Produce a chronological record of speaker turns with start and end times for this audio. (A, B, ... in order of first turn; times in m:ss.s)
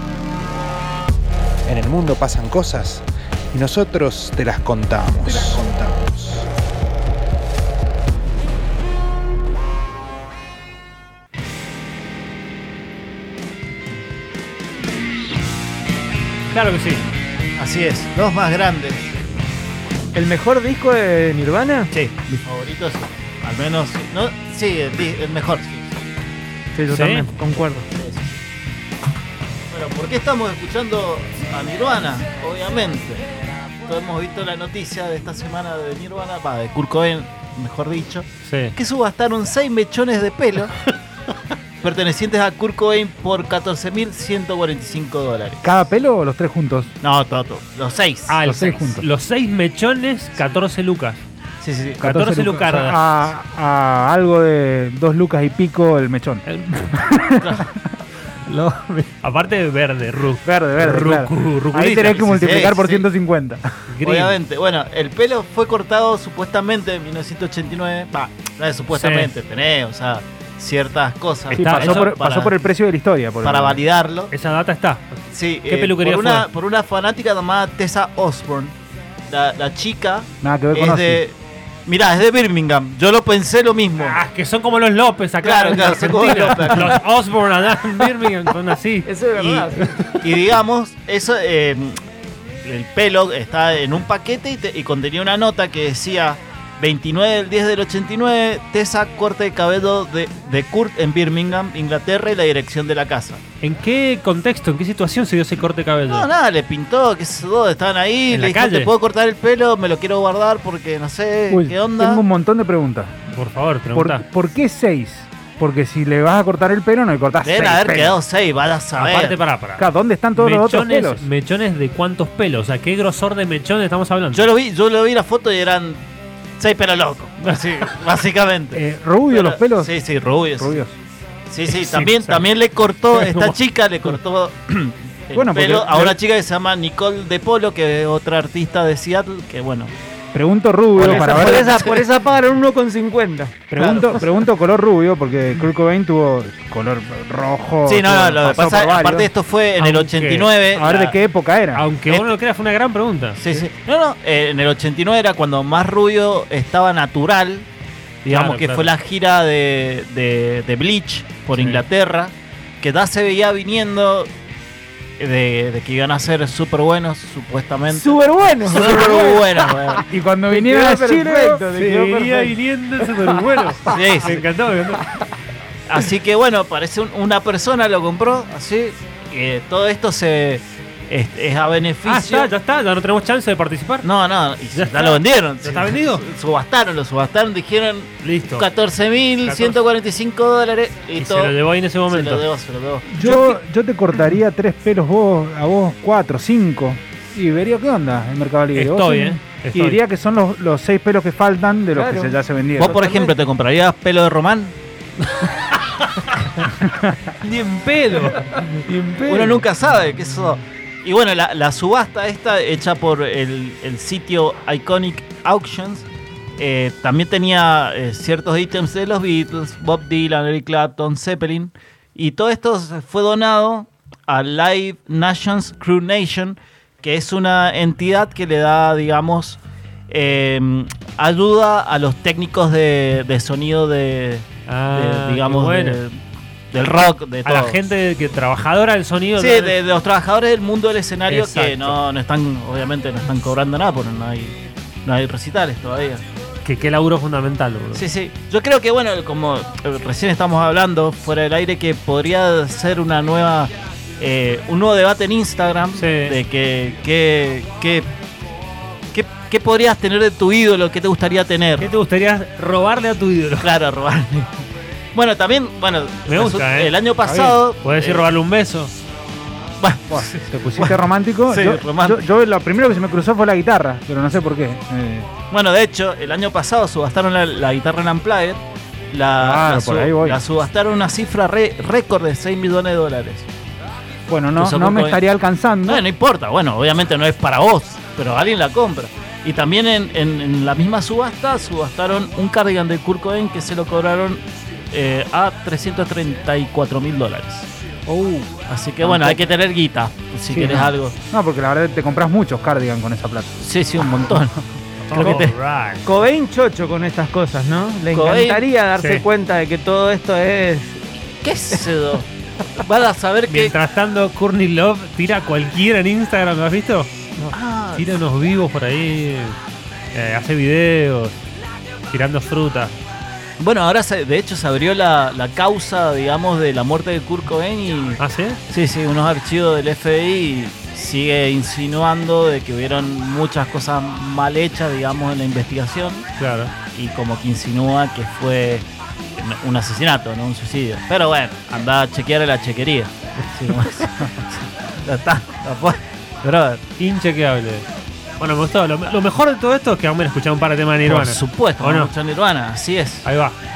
0:01.6-0:06.5 A
0:16.5-0:17.0 B
0:17.6-0:19.1 C
0:20.1-0:21.9 D
0:21.9-0:25.9 C
0:26.7-0:27.8 D
0:26.9-0:27.3 B
0:27.9-0:28.4 C
0:29.7-0:33.2 C
0:33.8-0:40.7 C
0:38.4-0:38.7 B
0:41.8-0:45.8 C
0:45.6-0:46.9 E
0:47.0-0:48.4 C
0:48.3-0:51.2 B
0:48.4-0:49.0 E
0:51.6-0:52.0 C
0:52.0-0:57.6 E
0:52.0-0:53.2 B
0:56.5-0:57.0 B
0:57.4-0:57.7 C
0:58.4-1:02.4 B
1:00.4-1:03.6 E
1:01.7-1:03.0 C
1:03.9-1:04.4 B
1:04.0-1:12.6 C
1:08.9-1:09.3 B
1:11.5-1:12.1 B
1:11.5-1:13.8 E
1:13.4-1:14.3 C
1:14.3-1:16.5 B
1:15.3-1:18.7 C
1:19.3-1:24.2 C
1:20.4-1:21.2 E
1:24.0-1:29.1 B
1:25.4-1:27.0 C
1:29.0-1:30.1 D
1:29.4-1:32.0 C
1:32.6-1:43.4 C
1:43.6-1:46.3 B
1:46.1-1:52.2 C
1:48.3-1:48.9 B
1:51.5-1:53.1 E
1:53.3-1:54.2 B
1:53.9-1:58.2 E
1:57.4-1:59.4 C
1:58.9-1:59.8 B
1:59.8-2:01.2 E
2:00.4-2:04.5 B
2:04.3-2:06.0 C
2:06.6-2:10.8 C
2:08.7-2:10.0 E
2:10.6-2:11.0 E
2:11.5-2:19.9 C
2:11.7-2:12.5 B
2:13.1-2:13.6 B
2:15.3-2:16.2 E
2:20.3-2:21.8 E
2:21.0-2:22.1 C
2:21.0-2:24.1 D
2:23.7-2:29.3 E
2:23.8-2:24.2 C
2:27.8-2:31.2 C
2:29.8-2:30.5 B
2:30.7-2:31.8 E
2:31.7-2:33.4 B
2:33.4-2:37.7 C
2:38.2-2:38.9 B
2:38.2-2:44.3 C
2:41.5-2:41.8 B
2:45.2-2:48.1 C
2:47.9-2:52.5 D
2:48.6-2:50.0 C
2:50.1-2:51.7 E
2:51.8-2:55.0 B
2:53.7-2:54.0 D
2:53.9-2:54.4 C
2:55.9-3:02.5 C
3:02.0-3:04.1 B
3:04.0-3:11.5 C
3:04.7-3:06.2 B
3:08.2-3:08.7 B
3:09.4-3:09.8 B
3:11.2-3:12.4 B
3:12.1-3:13.3 C
3:13.1-3:23.0 E
3:18.7-3:20.0 B
3:21.9-3:23.3 D
3:22.8-3:24.7 C
3:25.4-3:26.7 B
3:27.4-3:28.8 B
3:28.8-3:29.6 D
3:29.3-3:36.0 C
3:36.6-3:56.2 C
3:54.7-3:56.0 B
3:56.7-3:57.8 C
3:57.4-3:59.8 B
3:59.4-4:06.2 C
4:01.3-4:02.0 B
4:06.6-4:08.0 B
4:07.9-4:18.1 C
4:15.9-4:16.4 B
4:19.1-4:21.9 C
4:21.8-4:23.7 B
4:23.6-4:24.5 C
4:25.1-4:28.3 C
4:26.3-4:26.9 B
4:27.2-4:27.6 E
4:27.8-4:28.9 B
4:29.8-4:32.2 C
4:30.1-4:35.3 E
4:35.5-4:43.5 C
4:39.4-4:40.4 E
4:44.3-4:46.0 E
4:44.6-4:45.2 C
4:45.8-4:57.7 C
4:58.1-4:58.5 E
4:58.7-5:01.2 C
4:59.0-4:59.4 E
5:00.5-5:03.6 E
5:03.6-5:04.6 C
5:05.1-5:06.1 B
5:05.1-5:05.6 C
5:05.1-5:05.4 E
5:06.0-5:11.0 D
5:08.1-5:08.6 C
5:09.0-5:09.2 B
5:11.4-5:12.2 C
5:12.8-5:13.7 C
5:13.5-5:17.1 B
5:17.5-5:18.0 C
5:17.9-5:19.6 B
5:20.1-5:21.4 B
5:22.1-5:22.9 B
5:23.6-5:36.3 C
5:28.2-5:28.6 B
5:36.4-5:36.7 B
5:36.9-5:46.8 C
5:47.0-5:47.8 B
5:48.4-5:52.1 B
5:51.0-5:53.3 C
5:53.2-5:53.6 B